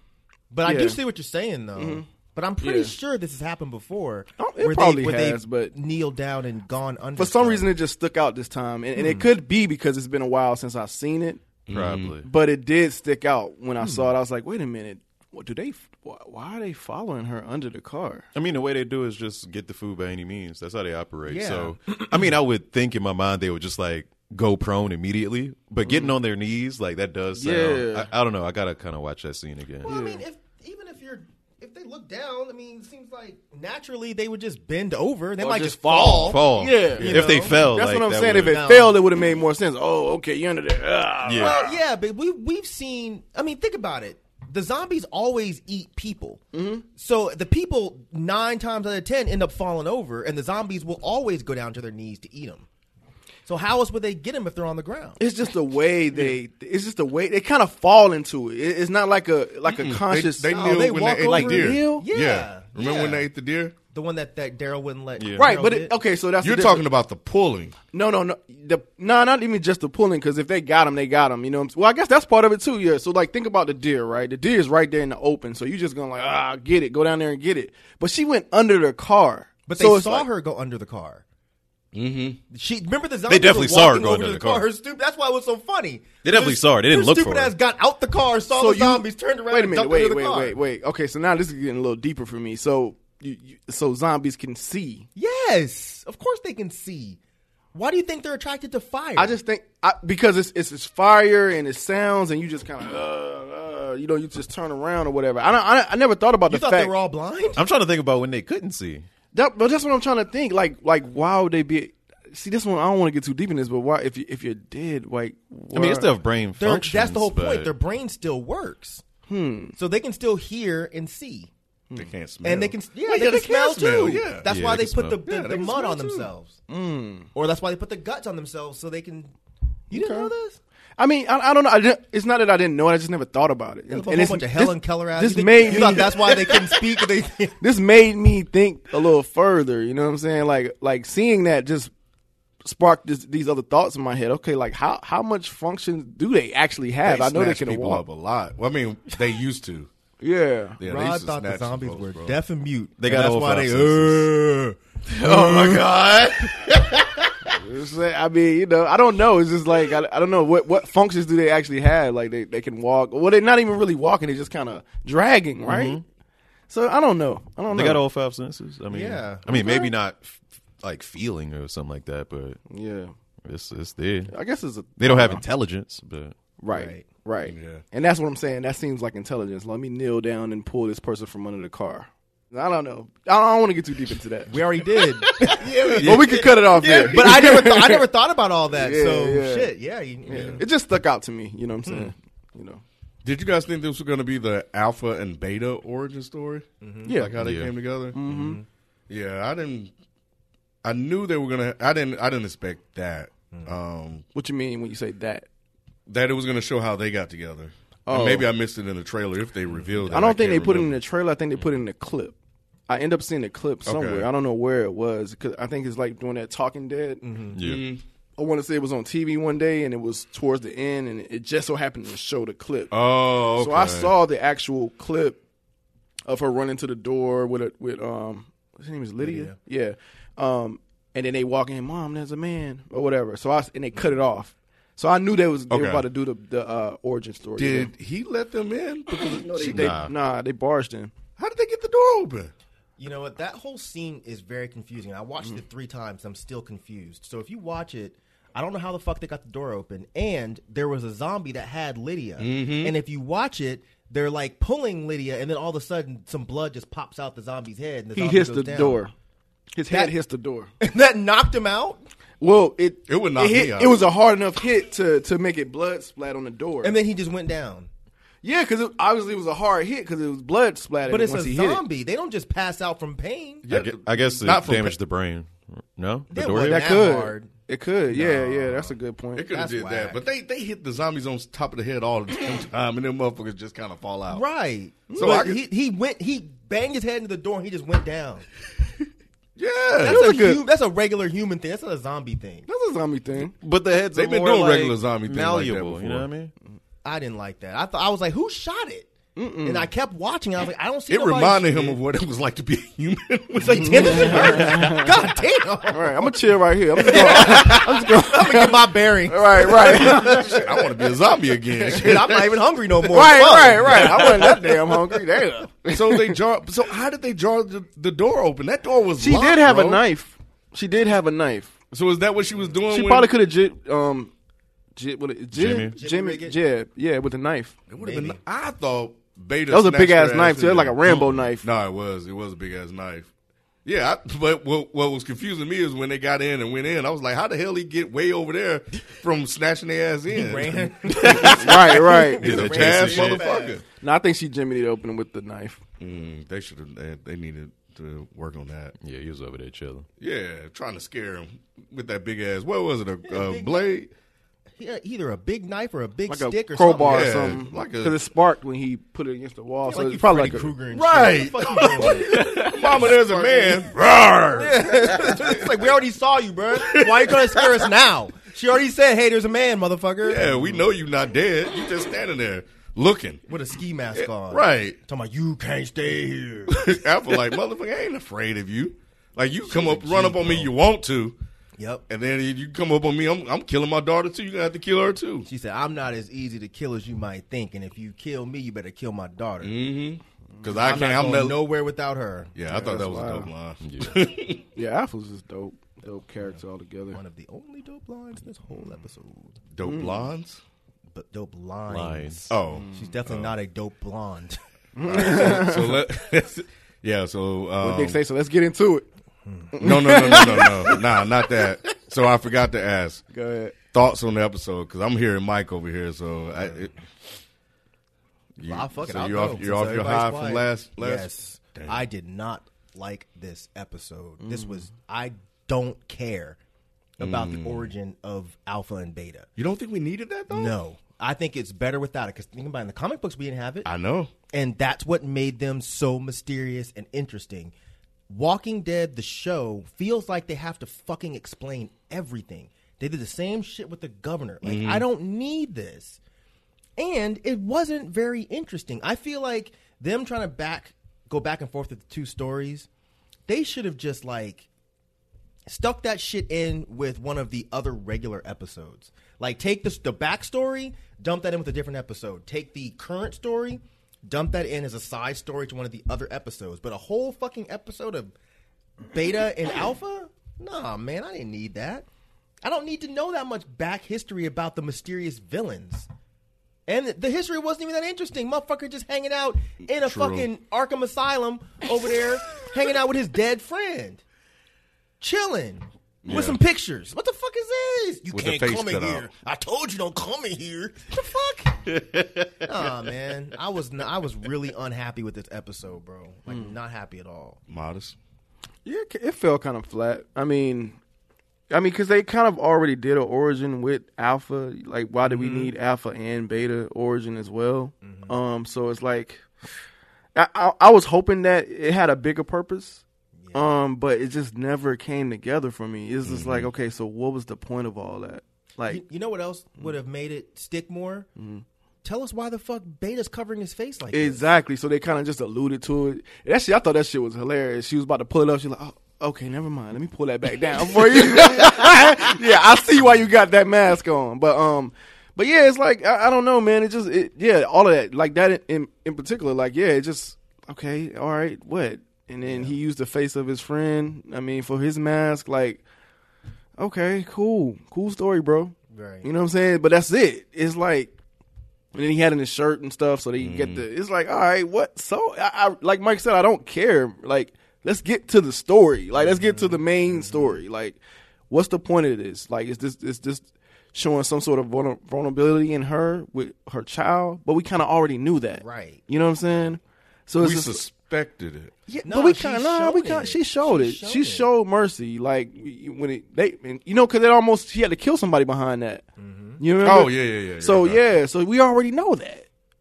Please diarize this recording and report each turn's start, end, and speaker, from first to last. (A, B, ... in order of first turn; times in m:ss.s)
0:00.5-0:07.7 A
0:00.6-0:01.0 B
0:01.8-0:02.1 B
0:02.6-0:03.0 B
0:04.4-0:05.8 B
0:07.2-0:11.4 B
0:09.0-0:09.3 A
0:11.7-0:12.2 C
0:11.7-0:12.3 D
0:12.2-0:18.3 B
0:13.8-0:14.1 A
0:18.3-0:29.9 D
0:21.3-0:22.4 A
0:25.8-0:26.2 B
0:27.4-0:28.1 B
0:29.8-0:37.7 A
0:29.9-0:30.2 B
0:35.4-0:41.8 B
0:36.1-0:38.7 D
0:38.4-0:39.0 A
0:41.2-0:41.6 D
0:41.4-0:52.7 A
0:46.5-0:46.8 B
0:53.5-0:55.2 A
0:55.2-1:02.1 B
0:59.7-1:03.8 C
1:00.5-1:03.2 A
1:03.9-1:05.9 A
1:05.2-1:05.5 D
1:05.4-1:06.8 B
1:06.4-1:07.8 C
1:07.9-1:20.3 B
1:19.7-1:21.2 A
1:21.9-1:22.4 C
1:22.5-1:30.6 A
1:23.3-1:24.7 D
1:26.2-1:27.6 D
1:28.5-1:35.1 B
1:35.2-1:37.2 A
1:37.7-1:39.4 A
1:39.2-1:46.9 B
1:46.5-1:47.6 A
1:47.6-1:49.1 D
1:49.3-1:56.2 B
1:55.7-1:57.8 D
1:56.6-1:59.0 A
1:59.3-1:59.8 B
1:59.8-2:01.5 A
2:01.9-2:04.5 C
2:02.4-2:06.6 A
2:04.5-2:05.2 D
2:05.2-2:06.3 C
2:06.7-2:07.3 B
2:07.3-2:09.3 A
2:09.9-2:10.6 A
2:09.9-2:10.3 B
2:11.0-2:17.0 B
2:13.9-2:17.6 A
2:17.6-2:21.9 B
2:22.6-2:28.0 B
2:27.0-2:29.9 C
2:30.2-2:30.8 B
2:30.8-2:32.4 C
2:30.8-2:35.9 A
2:33.0-2:34.3 D
2:35.1-2:37.1 D
2:35.3-2:35.7 B
2:36.5-2:36.8 A
2:37.5-2:46.0 B
2:45.7-2:46.0 D
2:46.7-2:48.0 B
2:47.7-2:52.6 D
2:48.9-2:49.9 A
2:52.7-2:53.1 B
2:53.4-2:54.3 D
2:54.3-2:55.4 B
2:55.0-2:56.4 D
2:56.6-3:08.1 B
2:56.7-2:57.1 A
2:57.5-2:57.8 C
3:04.5-3:10.6 A
3:05.6-3:07.0 C
3:08.7-3:09.7 B
3:10.3-3:12.8 B
3:10.3-3:10.6 C
3:11.9-3:12.1 A
3:13.2-3:18.2 C
3:16.8-3:17.2 A
3:17.0-3:17.4 B
3:17.4-3:17.7 D
3:18.1-3:18.6 B
3:18.3-3:18.7 A
3:19.1-3:19.9 C
3:20.8-3:24.2 C
3:24.4-3:25.5 B
3:26.1-3:31.0 C
3:28.1-3:28.5 B
3:29.7-3:30.2 A
3:30.1-3:32.4 B
3:32.9-3:37.2 B
3:33.9-3:34.3 C
3:37.2-3:37.6 A
3:37.5-3:37.9 D
3:37.6-3:38.0 C
3:38.4-3:42.9 B
3:42.9-3:44.1 C
3:43.6-3:45.4 B
3:46.3-3:57.9 B
3:49.2-3:49.6 A
3:55.7-3:56.0 C
3:57.6-4:00.0 C
3:59.1-4:01.1 B
3:59.6-4:00.1 D
4:01.4-4:02.5 C
4:03.0-4:19.1 A
4:12.4-4:13.0 C
4:18.2-4:19.1 B
4:19.7-4:20.7 B
4:20.8-4:22.0 A
4:22.4-4:27.0 B
4:23.1-4:24.1 C
4:26.8-4:27.9 A
4:28.4-4:31.8 B
4:31.1-4:33.6 A
4:33.6-4:35.0 C
4:33.7-4:37.0 D
4:36.3-4:37.5 A
4:36.6-4:39.5 B
4:38.1-4:39.0 A
4:39.4-4:44.4 C
4:39.5-4:40.2 A
4:44.3-4:48.5 A
4:45.1-4:45.5 B
4:45.1-4:45.6 C
4:49.6-4:50.3 C
4:50.0-4:52.7 A
4:50.1-4:50.6 B
4:52.7-4:53.5 B
4:53.4-4:56.5 D
4:54.1-4:56.3 C
4:57.0-5:02.0 A
4:59.4-4:59.9 B
5:01.1-5:04.8 C
5:03.6-5:06.4 A
5:03.8-5:05.1 B
5:05.9-5:10.6 B
5:07.0-5:11.1 A
5:10.6-5:12.5 C
5:11.8-5:15.0 A
5:13.0-5:16.4 B
5:15.9-5:20.0 C
5:19.2-5:21.7 B
5:21.9-5:23.3 C
5:22.9-5:24.3 B
5:25.0-5:27.8 B
5:25.5-5:26.0 D
5:25.9-5:26.6 A
5:27.9-5:33.3 C
5:28.0-5:28.4 A
5:29.7-5:31.6 B
5:31.1-5:31.4 D
5:33.8-5:41.9 C
5:40.3-5:43.8 A
5:41.4-5:43.2 B
5:42.4-5:43.8 C
5:42.4-5:43.4 D
5:43.9-5:45.8 B
5:46.0-5:49.0 C
5:49.0-5:50.1 D
5:50.2-5:54.1 C
5:53.3-5:53.9 A
5:54.8-5:57.6 A
5:56.3-6:00.8 B
5:57.0-5:58.2 C
5:59.9-6:03.9 A
6:00.9-6:05.6 C
6:02.4-6:02.8 D
6:04.6-6:10.6 A
6:06.8-6:07.9 C
6:10.2-6:13.5 C
6:13.5-6:16.9 A
6:14.1-6:15.0 C
6:16.7-6:21.4 C
6:19.6-6:20.7 A
6:21.8-6:22.0 A
6:22.1-6:25.5 C
6:25.5-6:29.8 A
6:29.6-6:31.6 C
6:30.8-6:32.6 A
6:32.6-6:34.6 C
6:32.7-6:33.5 B
6:33.8-6:34.2 D
6:34.8-6:37.2 B
6:37.1-6:39.6 A
6:39.7-6:40.6 C
6:39.8-6:40.2 B
6:41.1-6:44.6 A
6:41.9-6:42.5 D
6:42.5-6:43.6 C
6:42.7-6:43.2 B
6:45.0-6:46.0 B
6:45.1-6:48.2 C
6:45.1-6:45.5 A
6:47.8-6:49.1 B
6:49.5-6:50.9 A
6:49.7-6:51.1 B
6:49.8-6:53.2 C
6:53.3-6:53.8 B
6:53.9-6:57.0 C
6:58.6-7:02.0 C
6:58.6-7:06.6 A
7:04.4-7:04.8 B
7:07.2-7:09.5 A
7:07.2-7:07.9 C
7:09.6-7:10.8 C
7:10.5-7:13.9 A
7:13.8-7:14.3 C
7:14.5-7:17.7 A
7:18.3-7:26.2 A
7:24.6-7:25.0 C
7:27.0-7:32.9 A
7:33.5-7:34.7 A
7:35.7-7:48.3 A
7:49.1-7:52.1 A
7:52.6-7:56.1 A
7:56.9-8:04.2 A
8:00.0-8:00.5 C
8:05.2-8:12.0 A
8:06.2-8:06.6 C
8:08.3-8:09.3 C
8:11.9-8:13.0 D
8:12.6-8:17.6 A
8:16.5-8:16.7 B
8:17.7-8:18.2 C
8:18.8-8:21.0 B
8:21.7-8:29.4 B
8:25.3-8:25.7 A
8:28.0-8:28.3 A
8:30.4-8:33.0 B
8:33.4-8:33.8 A
8:33.5-8:39.0 B
8:36.3-8:36.7 C
8:38.9-8:41.3 A
8:41.4-8:41.6 B
8:42.0-8:44.4 A
8:44.1-9:05.8 B
9:02.5-9:02.8 A
9:06.8-9:11.1 B
9:08.9-9:09.3 A
9:11.9-9:21.0 B
9:13.4-9:13.8 C
9:19.2-9:20.6 A
9:21.5-9:30.8 B
9:28.6-9:29.0 A
9:30.4-9:31.7 C
9:31.9-9:34.5 A
9:32.0-9:39.0 B
9:39.2-9:39.6 A
9:39.6-9:42.5 B
9:39.8-9:41.0 C